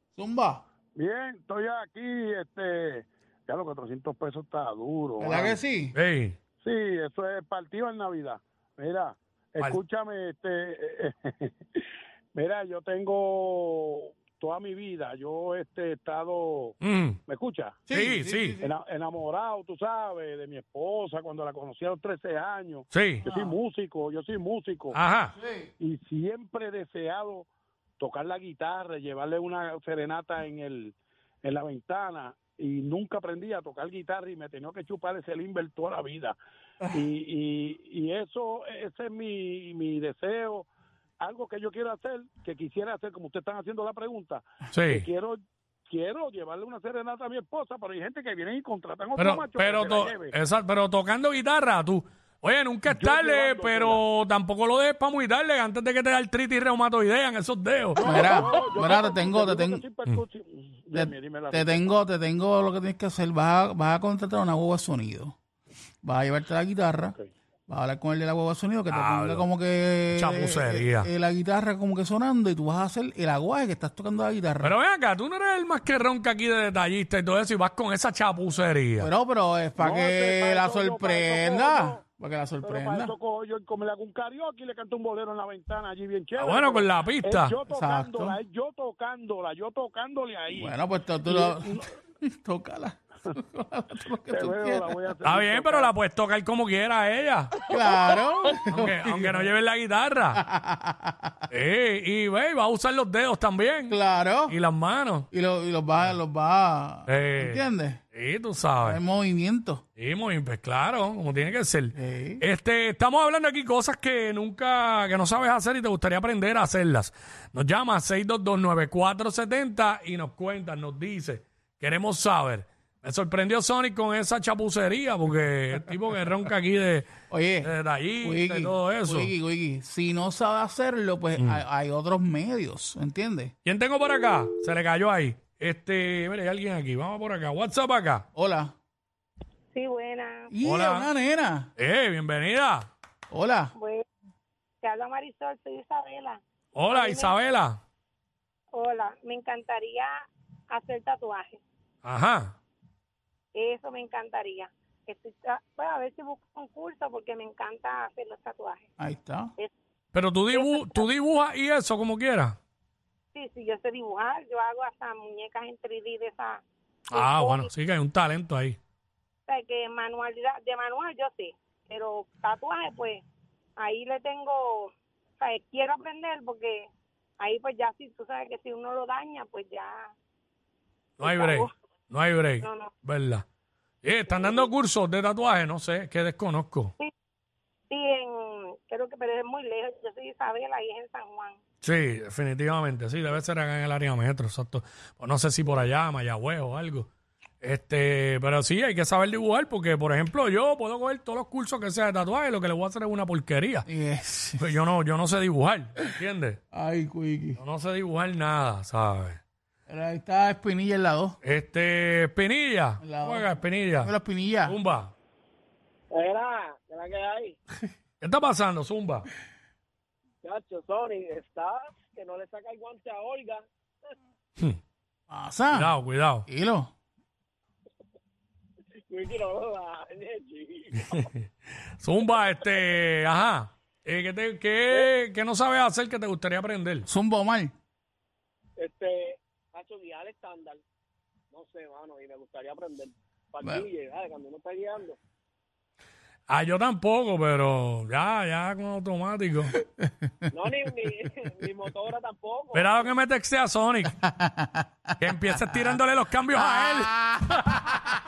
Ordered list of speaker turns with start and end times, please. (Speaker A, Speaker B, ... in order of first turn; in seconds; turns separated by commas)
Speaker A: 0.1-0.6, Speaker B: 1.0-5.2, Speaker A: 5.2-6.0, Speaker C: 5.9-6.4, Speaker B: 6.6-11.5, Speaker C: 9.6-9.8, Speaker B: 12.3-16.7, Speaker C: 16.8-17.2, Speaker B: 17.3-17.8, Speaker C: 17.9-18.6, Speaker A: 17.9-18.7, Speaker B: 18.6-25.0, Speaker C: 22.9-23.3, Speaker A: 23.3-23.6, Speaker C: 24.9-25.3, Speaker A: 25.4-25.7, Speaker B: 25.8-27.5, Speaker B: 28.0-36.4, Speaker B: 37.0-40.7, Speaker B: 41.2-50.3, Speaker C: 44.7-45.1, Speaker C: 49.1-58.3, Speaker B: 53.0-54.0, Speaker B: 58.0-61.8, Speaker A: 58.0-59.9, Speaker A: 60.9-65.4, Speaker A: 66.0-67.2, Speaker A: 67.7-74.8, Speaker C: 68.9-69.5, Speaker C: 70.1-71.1, Speaker C: 74.6-79.1, Speaker A: 79.0-83.1, Speaker B: 79.8-82.0, Speaker B: 82.7-90.7, Speaker C: 86.3-87.6, Speaker A: 87.7-88.4, Speaker A: 90.5-95.1, Speaker B: 91.3-91.6, Speaker B: 94.3-95.9, Speaker C: 95.2-97.5, Speaker A: 97.7-99.5, Speaker C: 98.7-100.4, Speaker A: 100.3-101.5, Speaker C: 101.5-105.3, Speaker A: 103.9-104.6, Speaker A: 105.3-108.0, Speaker C: 107.1-109.0, Speaker A: 108.8-109.8, Speaker C: 110.0-127.1, Speaker A: 112.0-112.4, Speaker A: 127.3-133.5, Speaker C: 127.6-129.3, Speaker C: 131.4-131.6, Speaker C: 133.7-138.2, Speaker A: 138.3-138.7, Speaker D: 139.7-140.5, Speaker A: 140.5-141.7, Speaker C: 140.6-141.1, Speaker C: 141.8-142.9, Speaker A: 143.3-143.7, Speaker D: 143.8-144.1, Speaker D: 144.8-146.4, Speaker C: 146.7-147.8, Speaker D: 146.9-147.3, Speaker D: 148.8-150.1, Speaker D: 150.7-151.6, Speaker C: 152.0-152.6, Speaker D: 153.5-158.8, Speaker A: 159.0-159.5, Speaker C: 160.1-162.6, Speaker D: 160.6-160.8, Speaker D: 163.3-166.6, Speaker C: 167.1-168.8, Speaker D: 167.2-167.7, Speaker D: 169.5-173.2, Speaker D: 173.8-176.9, Speaker D: 177.4-180.1, Speaker C: 181.2-183.4, Speaker D: 181.2-181.7, Speaker C: 184.0-186.9, Speaker D: 187.9-191.6, Speaker C: 191.8-197.1, Speaker C: 197.6-203.9, Speaker A: 203.9-204.8, Speaker C: 204.6-206.6, Speaker A: 206.7-207.6, Speaker C: 207.6-209.4, Speaker A: 209.9-211.4, Speaker C: 211.4-214.1, Speaker A: 213.0-214.8, Speaker C: 214.7-215.1, Speaker E: 216.1-217.6, Speaker C: 218.2-219.3, Speaker E: 220.4-223.7, Speaker A: 225.3-226.9, Speaker C: 225.7-226.4, Speaker E: 229.1-231.3, Speaker C: 231.0-231.5, Speaker C: 232.0-237.1, Speaker A: 237.1-237.7, Speaker E: 238.8-240.8, Speaker E: 241.5-245.2, Speaker C: 246.5-249.9, Speaker A: 250.0-250.3, Speaker E: 250.5-253.1, Speaker C: 252.7-254.2, Speaker A: 254.2-256.0, Speaker C: 255.2-257.7, Speaker A: 256.6-257.2